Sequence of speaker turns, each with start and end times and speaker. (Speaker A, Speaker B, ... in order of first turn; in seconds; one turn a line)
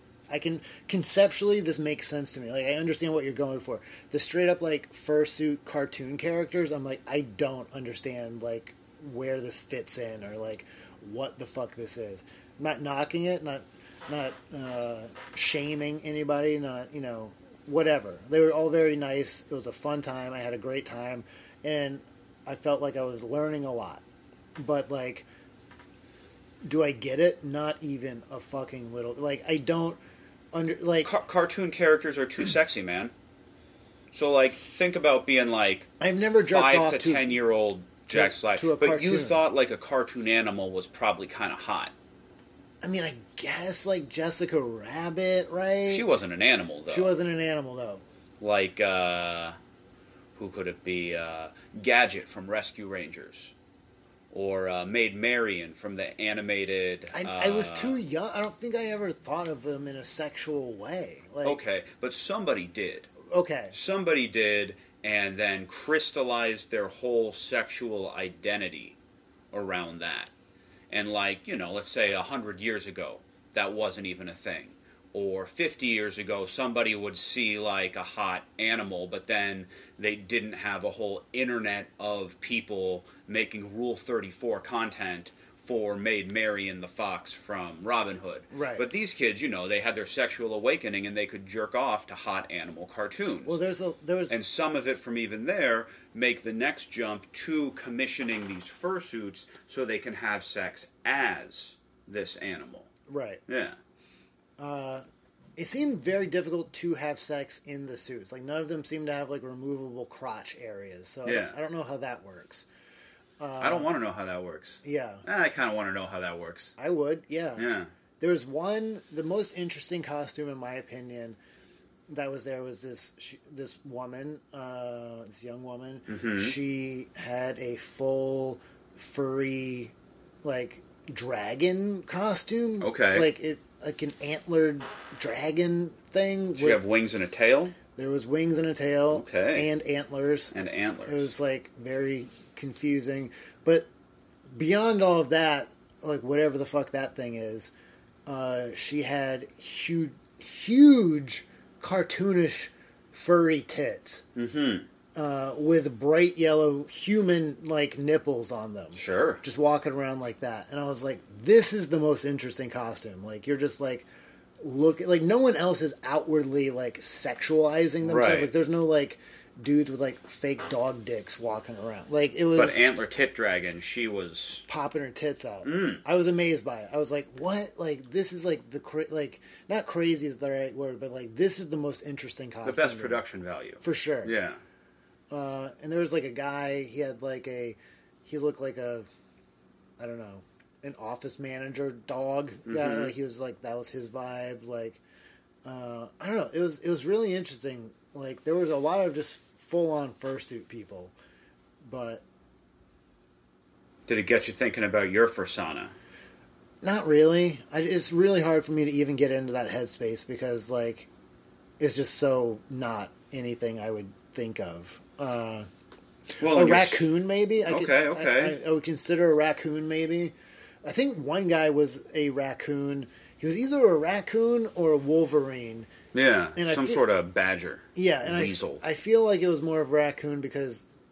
Speaker A: 0.3-24.0
Speaker A: 24.6-25.3
Speaker A: 26.6-30.0
Speaker A: 30.5-31.1
Speaker B: 31.0-33.1
Speaker B: 34.1-35.9
Speaker A: 36.0-37.4
Speaker B: 36.4-41.9
Speaker A: 38.1-39.4
Speaker A: 42.8-46.1
Speaker B: 45.9-47.2
Speaker A: 46.9-48.0
Speaker B: 48.4-49.6
Speaker B: 50.4-53.5
Speaker B: 54.3-58.0
Speaker A: 57.1-61.6
Speaker B: 61.4-63.1
Speaker A: 63.2-63.8
Speaker B: 63.7-69.0
Speaker B: 69.5-70.3
Speaker B: 70.9-93.6
Speaker A: 88.5-88.9
Speaker A: 93.5-94.4
Speaker B: 94.3-102.9
Speaker A: 103.1-103.4
Speaker B: 103.5-103.8
Speaker A: 104.6-105.0
Speaker A: 105.6-112.7
Speaker B: 111.2-111.6
Speaker A: 113.4-113.9
Speaker B: 113.6-116.8
Speaker A: 114.8-115.2
Speaker A: 116.8-117.7
Speaker B: 117.6-117.9
Speaker A: 118.2-121.4
Speaker A: 122.1-136.8
Speaker B: 126.1-126.6
Speaker B: 132.8-133.3
Speaker B: 136.6-137.8
Speaker A: 137.9-140.6
Speaker B: 139.1-139.7
Speaker B: 140.5-141.3
Speaker A: 141.1-143.9
Speaker A: 144.5-147.7
Speaker A: 148.3-154.2
Speaker B: 154.3-154.9
Speaker A: 155.2-164.1
Speaker B: 158.9-159.4
Speaker A: 164.6-172.8
Speaker B: 168.0-168.5
Speaker B: 172.5-174.7
Speaker A: 174.7-183.2
Speaker B: 175.7-176.0
Speaker B: 182.6-184.6
Speaker A: 183.8-184.3
Speaker A: 185.3-189.1
Speaker A: 190.0-195.0
Speaker B: 192.7-193.1
Speaker A: 195.7-201.1
Speaker A: 201.8-202.2
Speaker B: 204.1-205.9
Speaker A: 206.8-211.1
Speaker A: 211.8-215.7
Speaker B: 216.4-217.1
Speaker A: 216.4-225.9
Speaker B: 217.7-218.6
Speaker B: 226.1-228.8
Speaker A: 226.6-227.0
Speaker A: 227.9-230.9